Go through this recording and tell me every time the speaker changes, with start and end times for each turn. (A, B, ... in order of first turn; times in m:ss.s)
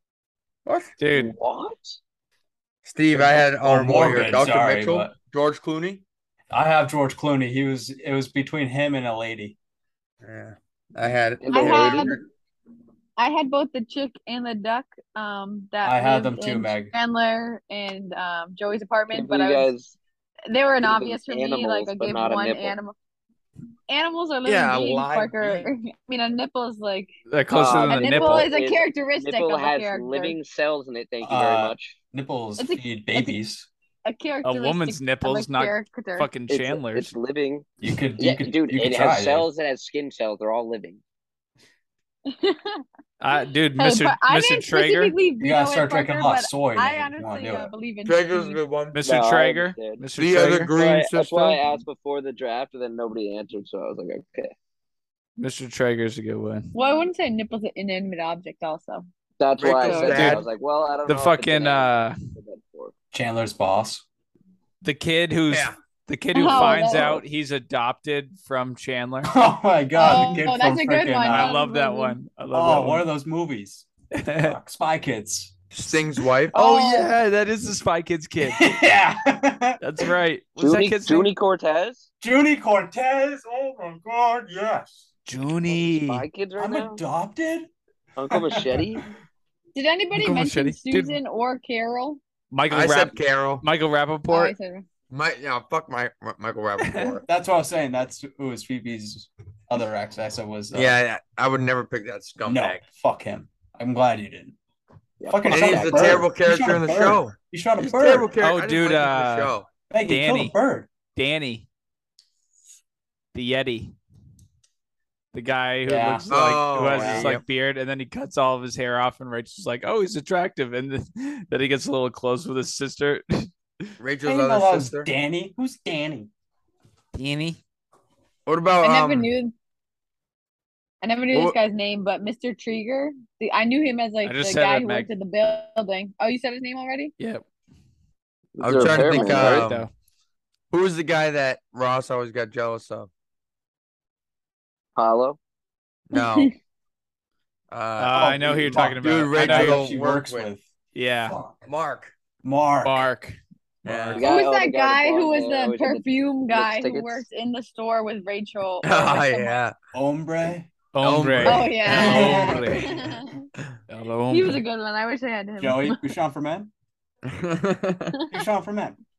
0:00.6-0:00.9 A
0:01.0-0:01.3 B
0:01.1-0:02.0 C
0:02.8-0:06.0 A
0:03.1-0:05.1 D
0:06.5-0:09.6 D
0:10.2-0:12.2 A
0:11.4-0:12.1 C
0:11.5-0:12.2 E
0:13.2-0:19.7 E
0:15.8-0:16.9 D
0:19.1-0:20.0 C
0:20.5-0:22.9 E
0:20.8-0:22.7 C
0:23.9-0:27.1 E
0:24.4-0:25.3 A
0:27.3-0:28.5 B
0:27.5-0:31.9 C
0:27.8-0:30.4 E
0:31.2-0:33.7 D
0:32.6-0:33.3 E
0:34.0-0:36.3 E
0:34.4-0:37.1 B
0:36.5-0:37.6 C
0:37.8-0:39.5 D
0:38.2-0:41.0 C
0:42.3-0:42.8 E
0:43.2-0:45.1 B
0:43.8-0:48.6 E
0:45.4-0:47.7 D
0:48.0-0:49.0 A
0:48.9-0:50.7 B
0:49.0-0:50.0 C
0:50.2-0:51.6 A
0:50.7-0:54.5 C
0:55.4-0:56.7 B
0:56.7-0:59.1 E
0:59.4-1:02.9 C
0:59.6-1:00.4 A
0:59.8-1:00.2 E
1:00.1-1:00.4 B
1:01.1-1:02.2 B
1:03.1-1:04.0 D
1:04.8-1:09.3 B
1:05.5-1:05.8 A
1:06.3-1:07.2 E
1:09.2-1:11.5 D
1:09.9-1:12.2 E
1:11.2-1:13.0 B
1:12.5-1:13.9 D
1:14.2-1:14.6 B
1:14.4-1:15.5 D
1:15.7-1:16.5 A
1:16.5-1:18.6 B
1:16.5-1:17.1 E
1:18.4-1:19.8 D
1:19.8-1:21.3 B
1:20.6-1:22.1 C
1:22.2-1:25.1 D
1:25.2-1:26.2 B
1:25.7-1:27.0 C
1:26.6-1:27.7 D
1:28.2-1:29.0 C
1:28.3-1:29.1 D
1:29.7-1:32.2 E
1:30.1-1:31.2 B
1:32.5-1:34.5 B
1:32.7-1:33.6 A
1:34.3-1:34.8 E
1:35.1-1:37.2 A
1:36.8-1:37.2 B
1:37.3-1:41.0 D
1:40.7-1:42.8 A
1:42.4-1:44.6 D
1:45.2-1:46.2 C
1:45.2-1:48.3 D
1:45.5-1:49.7 A
1:48.4-1:50.5 B
1:49.9-1:50.9 D
1:51.2-1:51.6 B
1:53.3-1:53.9 B
1:55.3-2:03.9 B
1:55.8-1:57.3 D
1:56.3-1:57.4 A
2:04.0-2:05.1 A
2:04.2-2:06.3 D
2:07.1-2:07.6 B
2:08.4-2:09.3 A
2:08.8-2:09.5 E
2:11.0-2:17.1 E
2:11.3-2:11.6 A
2:14.2-2:15.1 B
2:17.2-2:17.4 B
2:18.6-2:19.7 C
2:18.6-2:19.9 A
2:19.0-2:19.9 B
2:20.7-2:23.1 A
2:25.0-2:25.4 C
2:26.1-2:26.5 A
2:26.1-2:26.5 E
2:27.7-2:30.5 A
2:28.0-2:29.9 B
2:28.1-2:30.7 D
2:30.9-2:31.4 B
2:31.2-2:31.6 D
2:31.6-2:32.1 A
2:32.4-2:33.1 D
2:32.8-2:33.4 B
2:33.8-2:34.2 D
2:33.8-2:34.2 A
2:34.2-2:37.2 C
2:34.2-2:39.6 E
2:38.8-2:39.7 A
2:39.9-2:40.7 D
2:40.9-2:42.9 B
2:41.0-2:43.0 A
2:41.4-2:43.4 E
2:41.8-2:42.7 D
2:43.9-2:44.6 B
2:44.3-2:46.0 E
2:45.6-2:46.7 D
2:47.2-2:48.2 A
2:48.3-2:49.0 D